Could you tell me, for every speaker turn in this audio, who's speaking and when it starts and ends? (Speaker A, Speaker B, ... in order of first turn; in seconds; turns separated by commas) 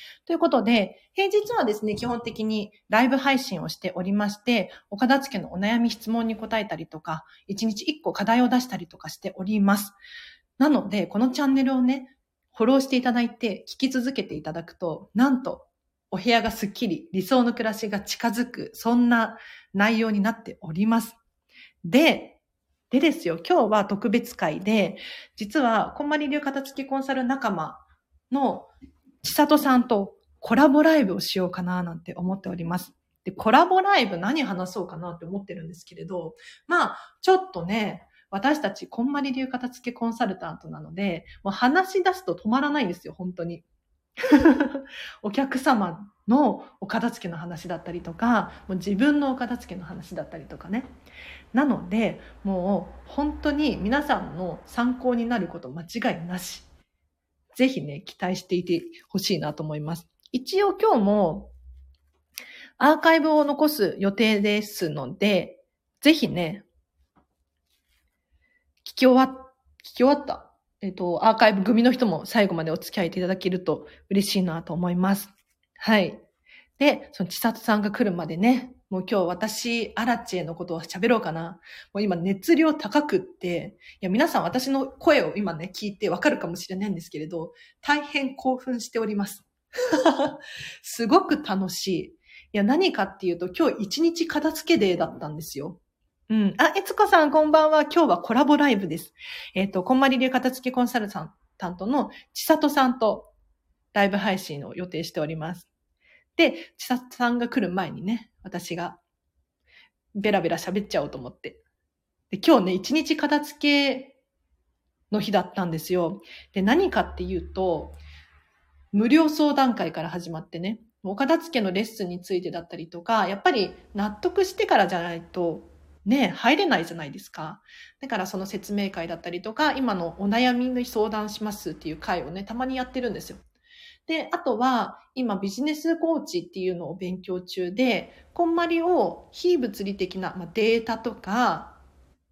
Speaker A: 0.2-10.0, Speaker A: 10.6-21.2, Speaker A: 21.8-22.4, Speaker A: 22.9-28.7, Speaker A: 29.2-43.6, Speaker A: 44.2-50.9, Speaker A: 51.5-56.7, Speaker A: 57.5-61.5, Speaker A: 62.8-66.7, Speaker A: 68.8-76.2, Speaker A: 76.8-103.3, Speaker A: 103.9-105.7, Speaker A: 106.3-109.0, Speaker A: 110.2-111.6, Speaker A: 112.3-114.1, Speaker A: 115.1-118.0, Speaker A: 118.9-133.4, Speaker A: 134.1-141.8